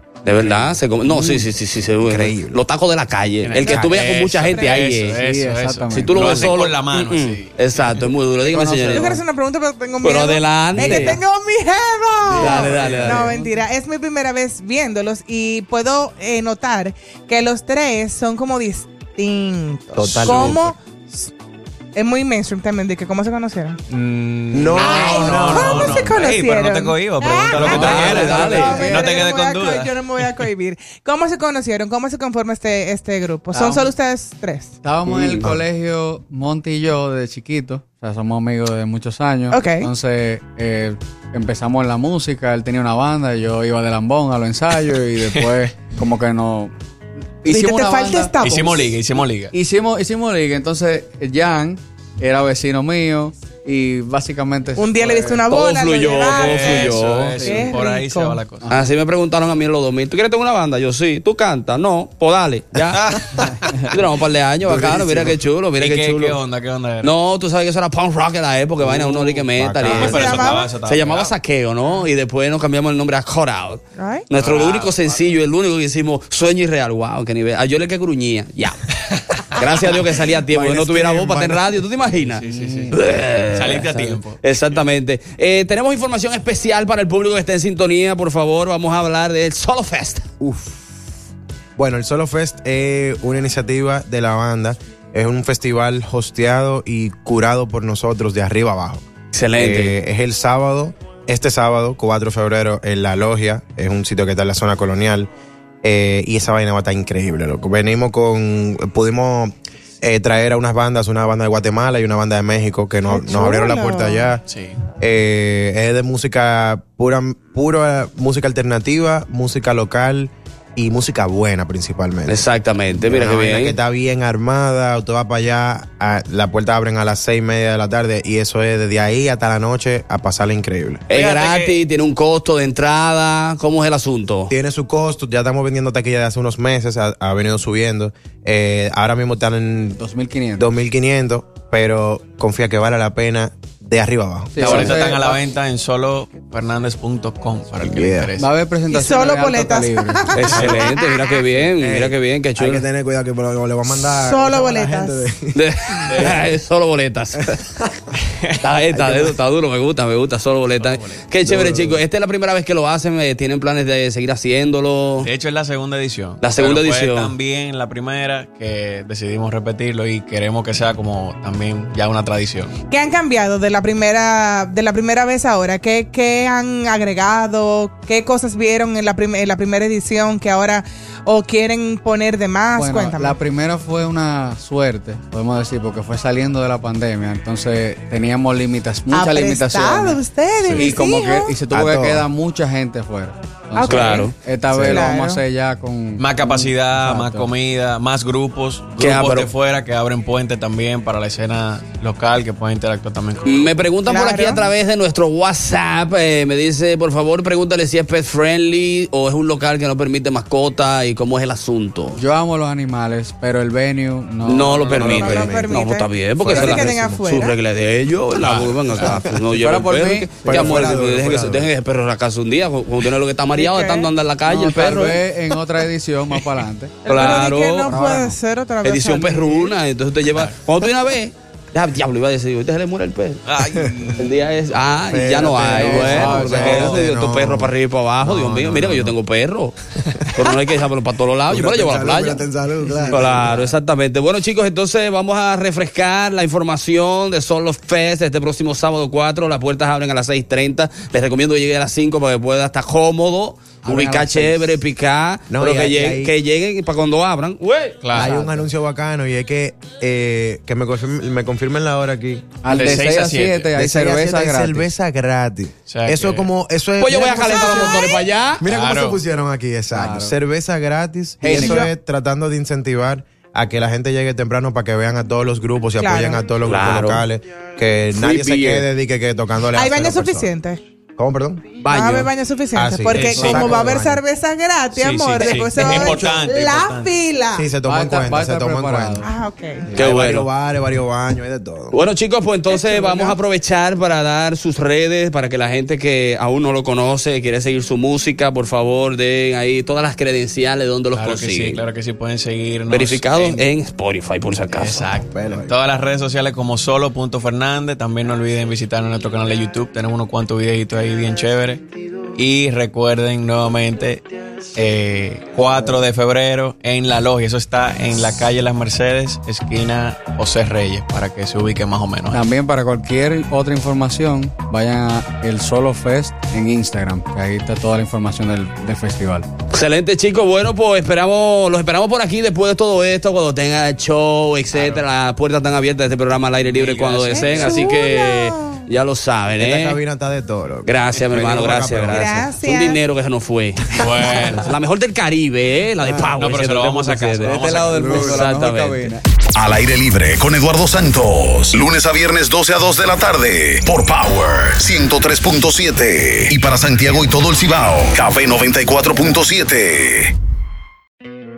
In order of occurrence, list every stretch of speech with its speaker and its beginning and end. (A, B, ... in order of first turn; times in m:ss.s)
0:00.2-0:05.2 A
0:00.3-0:00.7 B
0:01.0-0:01.5 C
0:02.0-0:02.6 C
0:03.4-0:08.0 B
0:03.6-0:04.9 D
0:05.2-0:06.4 E
0:05.9-0:09.2 A
0:08.4-0:09.2 E
0:08.9-0:21.3 D
0:10.0-0:11.2 A
0:10.8-0:11.0 E
0:12.3-0:13.3 A
0:12.4-0:13.1 C
0:12.6-0:13.0 B
0:13.2-0:13.5 E
0:20.0-0:20.6 C
0:20.2-0:20.6 B
0:21.9-0:23.8 D
0:23.9-0:30.0 B
0:24.5-0:26.1 C
0:24.8-0:34.8 D
0:27.7-0:28.6 E
0:27.7-0:28.9 A
0:28.0-0:29.0 C
0:33.5-0:33.9 E
0:34.8-0:46.7 E
0:35.1-0:35.4 A
0:39.5-0:39.9 D
0:45.2-0:45.6 B
0:47.4-0:48.3 E
0:47.4-0:49.0 D
0:48.4-0:49.5 B
0:49.5-0:55.4 E
0:54.8-0:58.4 D
0:55.5-0:57.4 A
0:56.2-0:58.7 B
0:58.6-0:58.9 E
0:58.7-1:03.1 A
1:02.9-1:04.0 B
1:03.9-1:06.4 A
1:04.6-1:07.2 B
1:07.0-1:30.3 A
1:08.8-1:11.3 B
1:09.6-1:10.3 C
1:09.9-1:10.7 D
1:14.0-1:14.3 D
1:14.3-1:15.3 B
1:20.5-1:21.8 C
1:22.2-1:24.8 B
1:22.5-1:22.9 C
1:30.4-1:30.8 C
1:31.8-1:39.0 C
1:39.3-1:40.0 A
1:39.6-1:45.3 C
1:45.8-1:54.4 C
1:53.1-1:54.3 D
1:54.4-1:54.8 B
1:55.0-2:11.0 C
2:02.3-2:03.8 A
2:11.1-2:14.5 A
2:11.1-2:11.8 B
2:14.5-2:20.0 C
2:20.0-2:20.7 E
2:20.6-2:24.8 C
2:24.5-2:25.4 E
2:24.6-2:28.4 B
2:24.6-2:25.0 A
2:27.8-2:28.3 C
2:28.3-2:30.7 E
2:28.9-2:31.2 D
2:30.3-2:32.8 A
2:30.3-2:30.9 B
2:31.8-2:36.4 C
2:34.0-2:35.3 D
2:35.5-2:37.6 A
2:36.1-2:36.4 B
2:38.2-2:38.7 B
2:38.6-2:45.3 A
2:38.9-2:39.4 C
2:40.8-2:41.2 B
2:41.4-2:42.0 C
2:45.2-2:52.7 B
2:46.4-2:47.3 A
2:52.9-3:03.4 D
3:02.8-3:10.2 E
3:09.1-3:11.6 D
3:10.6-3:10.9 B
3:10.8-3:17.5 E
3:11.7-3:12.2 C
3:13.8-3:15.4 D
3:13.8-3:14.3 A
3:14.7-3:15.0 C
3:16.2-3:23.7 B
3:19.0-3:19.5 A
3:23.4-3:32.2 A
3:24.0-3:24.7 D
3:32.1-3:35.4 E
3:34.4-3:45.2 A
3:34.9-3:37.6 D
3:35.0-3:35.5 C
3:38.4-3:39.1 B
3:39.0-3:39.4 C
3:39.5-3:41.0 E
3:40.4-3:41.7 C
3:43.5-3:44.1 D
3:44.4-3:47.0 E
3:47.0-3:49.8 D
3:47.0-3:48.0 A
3:47.9-3:48.4 E
3:48.8-3:53.4 A
3:53.4-3:54.3 B
3:53.7-3:53.9 C
3:54.2-3:59.7 A
3:55.0-3:59.2 C
3:55.7-3:57.0 E
3:55.9-3:57.0 B
4:00.1-4:00.6 C
4:00.3-4:02.4 A
4:01.5-4:03.5 C
4:03.1-4:18.3 A
4:13.8-4:14.8 E
4:15.5-4:16.3 C
4:18.0-4:18.3 B
4:18.1-4:22.6 C
4:18.3-4:18.6 E
4:22.6-4:24.9 E
4:22.7-4:23.8 B
4:23.8-4:40.5 C
4:25.9-4:26.5 B
4:27.0-4:28.6 A
4:27.3-4:28.2 D
4:28.6-4:29.2 B
4:29.9-4:30.3 E
4:31.4-4:31.9 E
4:31.6-4:31.9 D
4:36.0-4:36.4 D
4:36.6-4:37.2 A
4:38.1-4:38.8 A
4:39.7-4:40.8 D
4:41.2-4:41.8 C
4:41.8-4:47.7 D
4:41.8-4:42.3 A
4:42.7-4:44.2 C
4:43.1-4:43.7 B
4:43.3-4:43.9 E
4:44.9-4:47.2 B
4:45.0-4:45.4 A
4:46.0-4:46.3 C
4:47.5-4:49.3 C
4:47.8-4:49.3 E
4:49.2-4:49.9 D
4:49.9-4:52.0 C
4:49.9-4:50.5 A
4:51.9-5:01.8 A
4:52.7-4:53.4 D
5:01.1-5:03.6 B
5:02.9-5:05.1 A
5:04.7-5:22.4 B
5:05.3-5:05.7 C
5:22.3-5:29.5 E
5:29.7-5:40.0 A
5:34.7-5:35.0 B
5:36.6-5:37.9 B
5:37.3-5:38.8 D
5:39.6-5:42.3 C
5:40.8-5:49.1 A
5:41.3-5:41.6 B
5:42.1-5:43.0 D
5:43.9-5:44.7 B
5:46.0-5:46.3 C
5:46.4-5:48.0 B
5:47.4-5:49.2 E
5:47.8-5:48.5 C
5:49.5-6:00.3 F